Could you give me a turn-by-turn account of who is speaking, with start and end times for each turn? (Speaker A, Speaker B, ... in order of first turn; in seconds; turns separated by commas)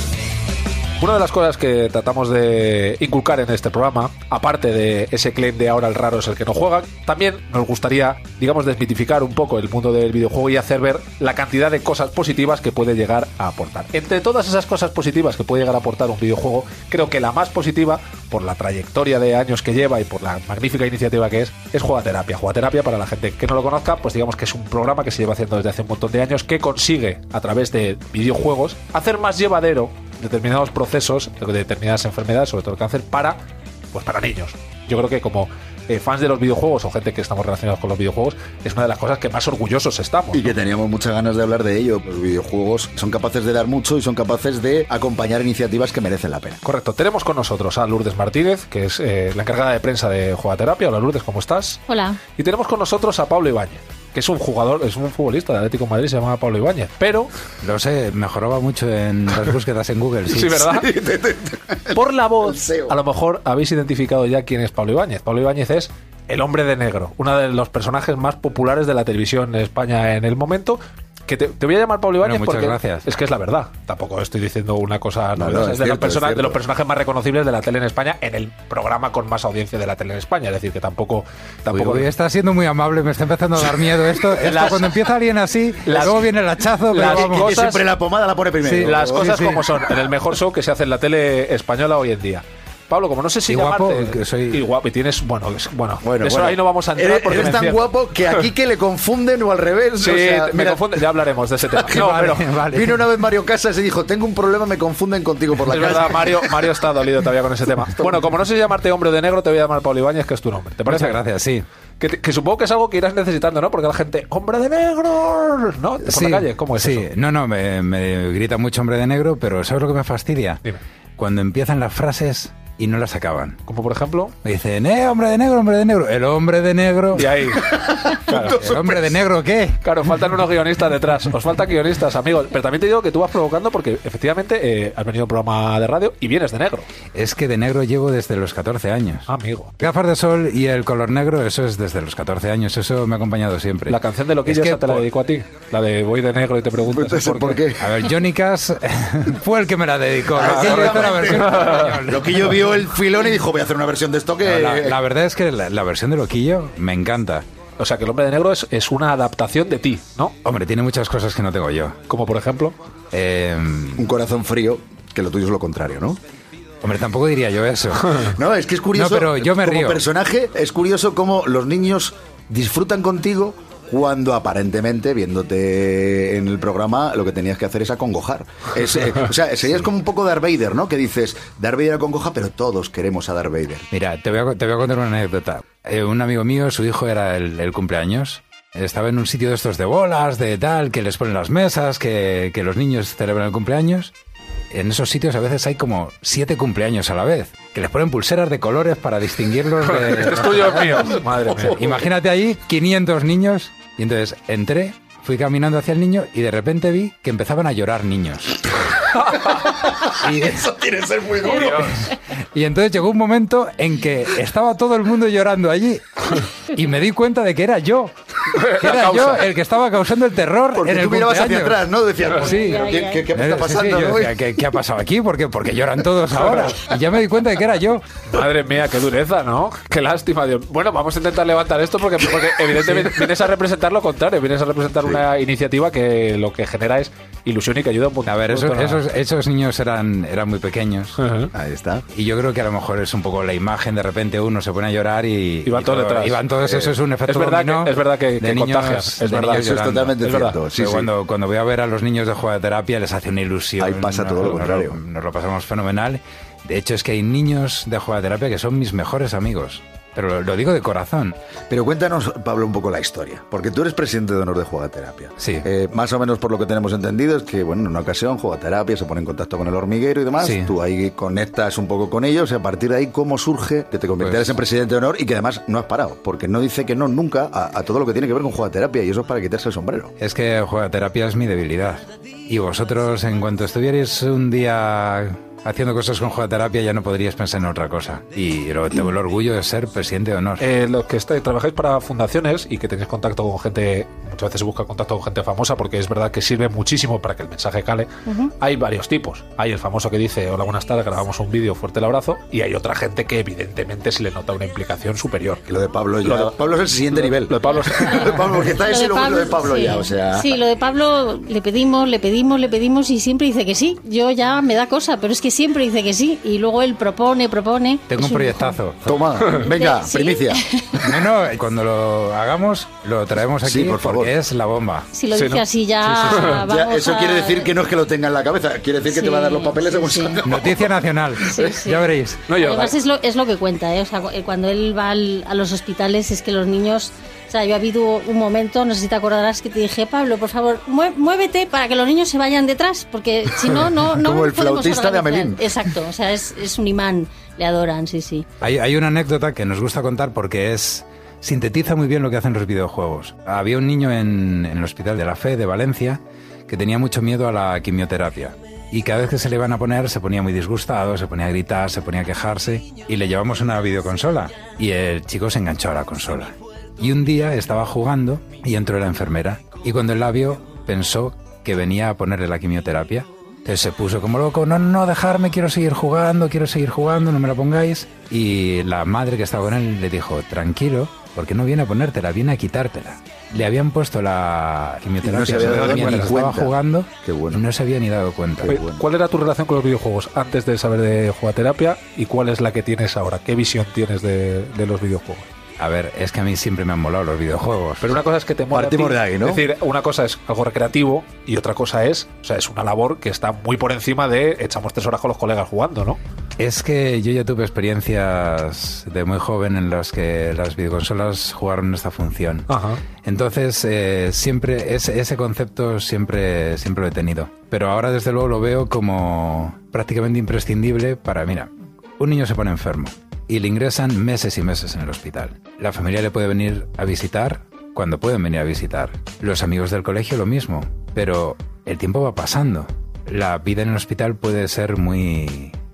Speaker A: 1.0-33.4, Speaker A: 33.9-40.5, Speaker B: 40.3-46.6, Speaker A: 46.6-51.8, Speaker C: 51.9-52.2, Speaker A: 52.3-57.3, Speaker D: 57.6-60.7, Speaker A: 60.3-60.9, Speaker B: 60.5-63.0, Speaker A: 61.9-82.1, Speaker D: 72.2-73.1, Speaker B: 75.3-76.6, Speaker D: 81.7-87.5, Speaker A: 84.4-84.9, Speaker A: 85.8-86.3, Speaker A: 86.9-87.9, Speaker B: 87.0-89.5, Speaker D: 88.6-89.6, Speaker A: 88.7-97.9, Speaker D: 93.5-94.6, Speaker B: 96.0-101.0, Speaker A: 100.0-102.5, Speaker B: 101.7-106.8, Speaker D: 101.9-103.0, Speaker A: 105.6-111.2, Speaker B: 107.8-108.3, Speaker D: 110.9-111.7, Speaker A: 112.0-117.1, Speaker D: 116.0-120.6, Speaker D: 121.2-123.6, Speaker A: 123.7-124.3, Speaker D: 124.4-127.5, Speaker A: 127.1-128.6, Speaker B: 127.6-129.2, Speaker D: 128.3-129.8, Speaker A: 129.8-136.9, Speaker D: 137.1-145.1, Speaker A: 139.3-139.7, Speaker A: 143.9-147.7, Speaker B: 146.8-147.9, Speaker D: 147.8-152.7, Speaker B: 150.3-155.0, Speaker A: 150.4-151.9, Speaker D: 154.4-157.4, Speaker A: 157.8-160.3, Speaker D: 160.4-162.0, Speaker A: 162.1-162.8, Speaker D: 163.1-164.1, Speaker B: 163.9-166.2, Speaker D: 166.8-168.3, Speaker B: 168.2-183.9, Speaker D: 168.9-170.0, Speaker D: 183.9-194.1, Speaker D: 194.7-208.7, Speaker A: 199.8-202.0, Speaker B: 201.5-202.0, Speaker B: 209.6-212.1, Speaker D: 210.1-210.7, Speaker D: 211.6-221.8, Speaker A: 218.5-219.4, Speaker B: 220.7-224.4, Speaker C: 222.4-223.2, Speaker D: 223.3-228.1, Speaker A: 228.3-239.0, Speaker D: 238.2-241.2, Speaker A: 241.2-241.5, Speaker B: 241.5-242.1, Speaker D: 242.1-250.1, Speaker A: 245.6-246.4, Speaker B: 246.6-247.0, Speaker A: 247.3-250.6, Speaker B: 249.4-251.1, Speaker D: 250.7-261.4, Speaker B: 253.8-255.0, Speaker B: 261.7-280.1, Speaker D: 265.4-265.6, Speaker D: 270.4-270.7, Speaker D: 274.2-274.5, Speaker D: 280.2-290.6, Speaker A: 290.6-305.6, Speaker C: 298.3-298.5, Speaker B: 305.6-310.5, Speaker A: 306.2-306.6, Speaker A: 307.1-308.6, Speaker C: 308.0-318.8, Speaker D: 318.1-319.1, Speaker B: 319.0-320.6, Speaker C: 319.5-321.1, Speaker D: 321.0-325.1, Speaker B: 323.6-324.4, Speaker C: 325.1-327.7, Speaker A: 325.3-325.6, Speaker D: 326.0-326.6, Speaker A: 326.3-326.6, Speaker B: 326.6-331.0, Speaker C: 329.1-330.4, Speaker D: 330.4-332.4, Speaker C: 331.4-348.4, Speaker A: 332.5-333.0, Speaker B: 343.9-345.7, Speaker D: 348.6-388.8, Speaker B: 385.2-387.6, Speaker A: 385.8-386.1, Speaker B: 388.6-389.1, Speaker A: 388.6-395.4, Speaker D: 395.8-398.1, Speaker A: 398.0-406.2, Speaker B: 398.7-399.7, Speaker D: 406.6-412.7, Speaker A: 412.7-413.0, Speaker D: 413.2-435.8